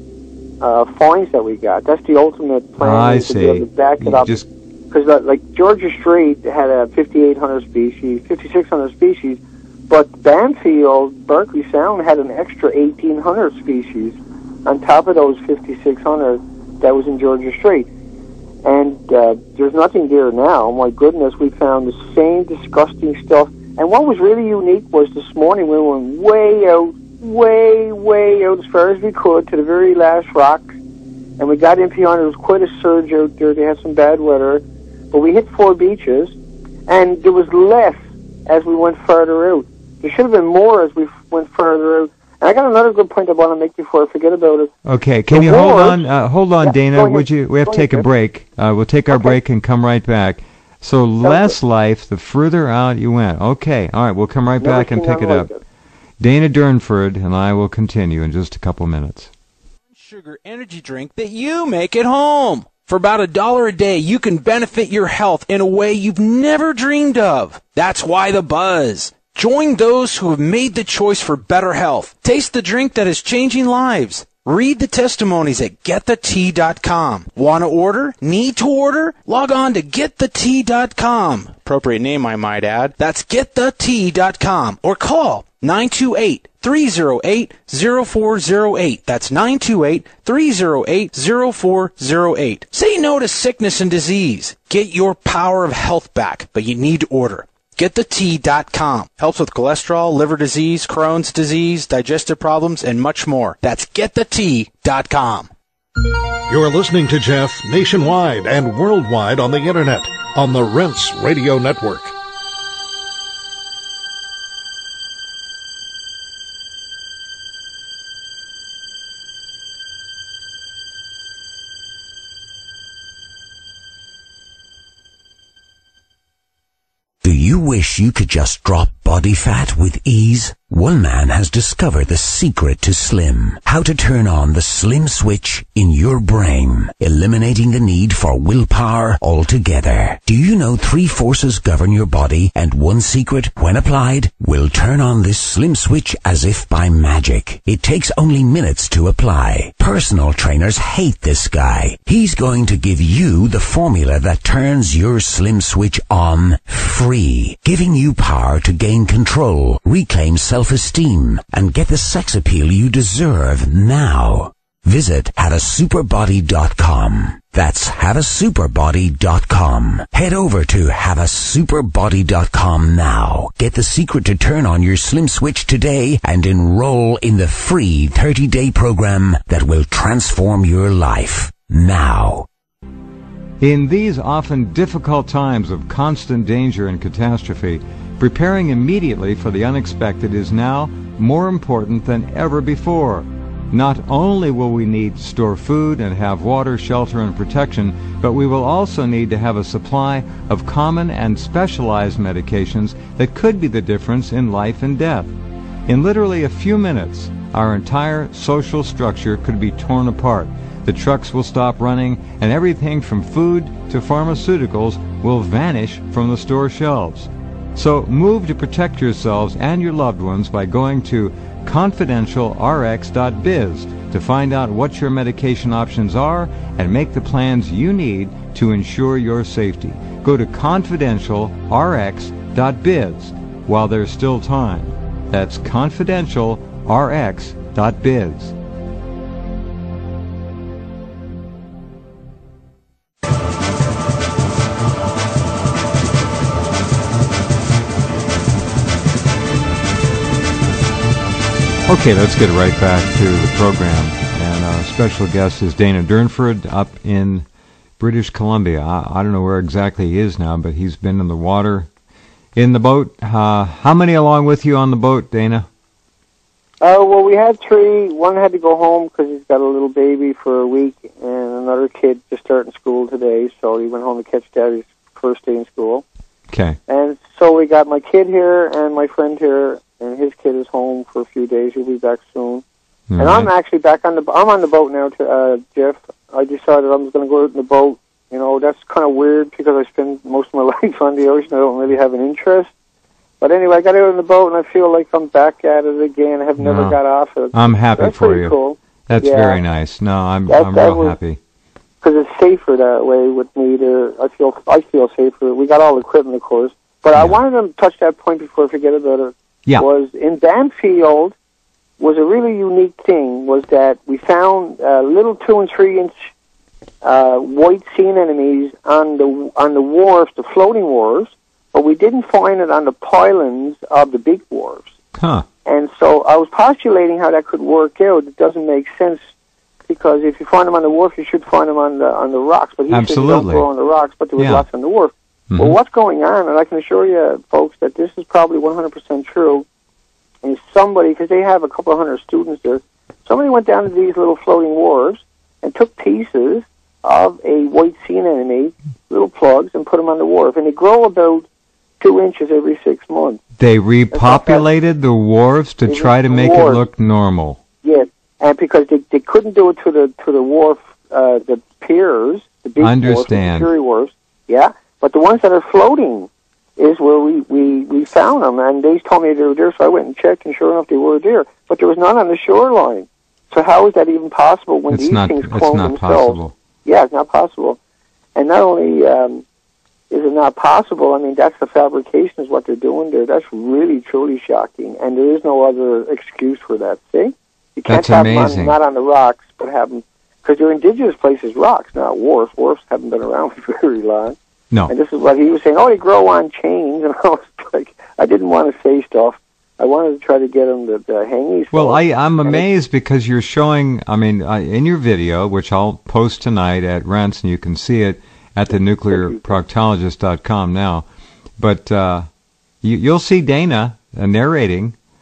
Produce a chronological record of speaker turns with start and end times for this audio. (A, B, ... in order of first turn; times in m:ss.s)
0:00.6-0:04.4 A
0:02.8-0:04.5 B
0:04.9-0:17.9 A
0:18.6-0:30.7 A
0:31.4-0:36.4 A
0:36.9-0:44.7 A
0:44.8-0:55.5 B
0:45.3-0:46.1 A
0:46.6-0:48.1 A
0:49.1-0:49.4 A
0:51.2-0:51.6 A
0:54.6-0:55.6 A
0:56.2-0:59.3 B
0:59.9-1:45.5 C
1:46.5-1:52.1 D
2:07.2-3:02.5 E
3:03.6-3:25.3 B
3:25.9-3:58.6 B
4:11.9-4:17.5 B
4:18.0-4:21.9 B
4:22.6-4:25.7 B
4:26.8-4:36.0 A
4:36.5-4:36.8 B
4:36.9-4:42.6 A
4:43.1-4:43.5 B
4:43.2-4:52.7 A
4:53.4-4:59.6 A
4:56.6-4:57.0 B
4:57.5-4:58.6 B
4:59.1-5:01.4 B
5:00.5-5:01.2 A
5:02.0-5:11.4 A
5:12.0-5:16.1 A
5:17.0-5:24.9 A
5:25.2-5:25.5 B
5:25.6-5:29.2 A
5:29.9-5:39.6 A
5:32.9-5:33.7 B
5:34.4-5:34.7 B
5:35.5-5:35.8 B
5:40.4-5:51.5 A
5:52.0-5:53.4 A
5:53.6-5:57.6 B
5:54.1-5:54.6 A
5:55.9-5:56.8 A
5:57.8-6:17.8 A
6:02.8-6:03.7 B
6:14.9-6:16.5 B
6:18.4-6:19.4 A
6:20.1-6:34.4 A
6:27.9-6:28.8 B
6:34.9-6:42.6 A
6:41.7-6:51.1 B
6:49.1-6:49.6 A
6:51.6-6:52.3 B
6:52.8-6:55.0 B